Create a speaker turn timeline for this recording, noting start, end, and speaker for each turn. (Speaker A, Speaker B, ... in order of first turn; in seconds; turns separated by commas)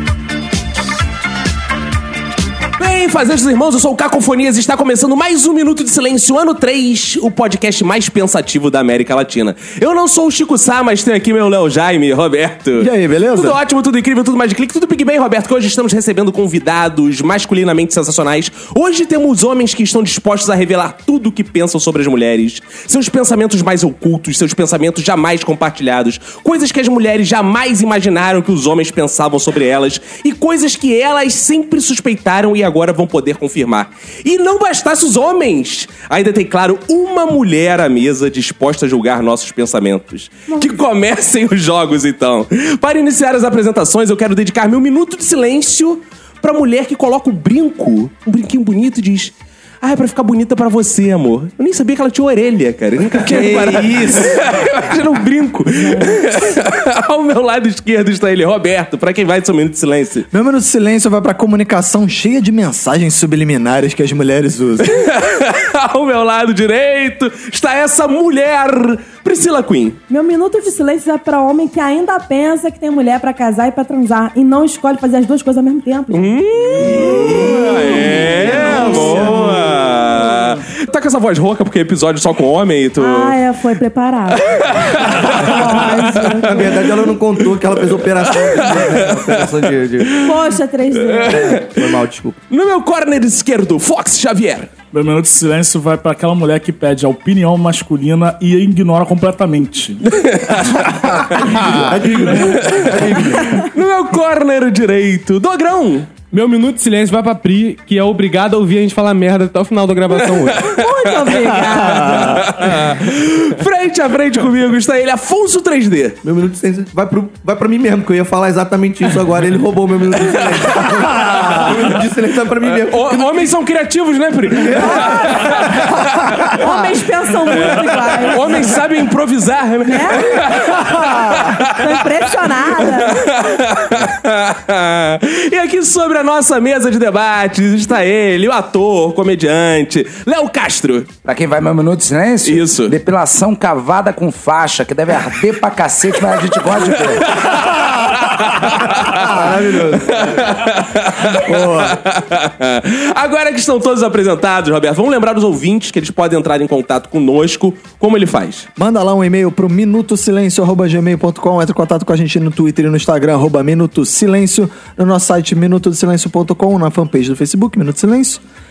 Speaker A: 2.8-60.3, Speaker B: 12.8-13.6, Speaker C: 40.5-40.8, Speaker B: 53.1-54.4, Speaker C: 55.8-56.2, Speaker B: 60.3-64.9, Speaker A: 64.8-70.0, Speaker C: 70.1-78.0, Speaker A: 76.1-83.4, Speaker B: 76.8-79.9, Speaker D: 78.4-79.6, Speaker C: 78.6-79.3, Speaker C: 83.0-86.9, Speaker A: 84.4-86.4, Speaker D: 86.4-90.3, Speaker A: 88.3-89.5, Speaker A: 90.1-91.8, Speaker C: 90.2-91.7, Speaker D: 91.5-92.4, Speaker A: 92.5-94.7, Speaker E: 94.9-100.0, Speaker A: 100.0-106.2, Speaker D: 101.4-103.7, Speaker F: 106.3-110.6, Speaker A: 110.1-116.2, Speaker C: 110.6-112.4, Speaker B: 111.5-112.5, Speaker D: 116.2-123.5, Speaker A: 120.7-121.0, Speaker B: 121.2-121.5, Speaker A: 121.7-122.0, Speaker A: 122.6-126.6, Speaker D: 124.6-125.3, Speaker C: 124.8-125.6, Speaker B: 126.3-126.7, Speaker C: 126.5-128.8, Speaker A: 127.5-132.2, Speaker C: 129.8-130.5, Speaker B: 131.0-131.4, Speaker C: 131.6-133.2, Speaker A: 132.8-141.1, Speaker G: 141.2-147.4, Speaker A: 142.4-143.0, Speaker A: 147.2-158.7, Speaker D: 149.0-150.4, Speaker B: 151.2-152.0, Speaker B: 158.8-168.4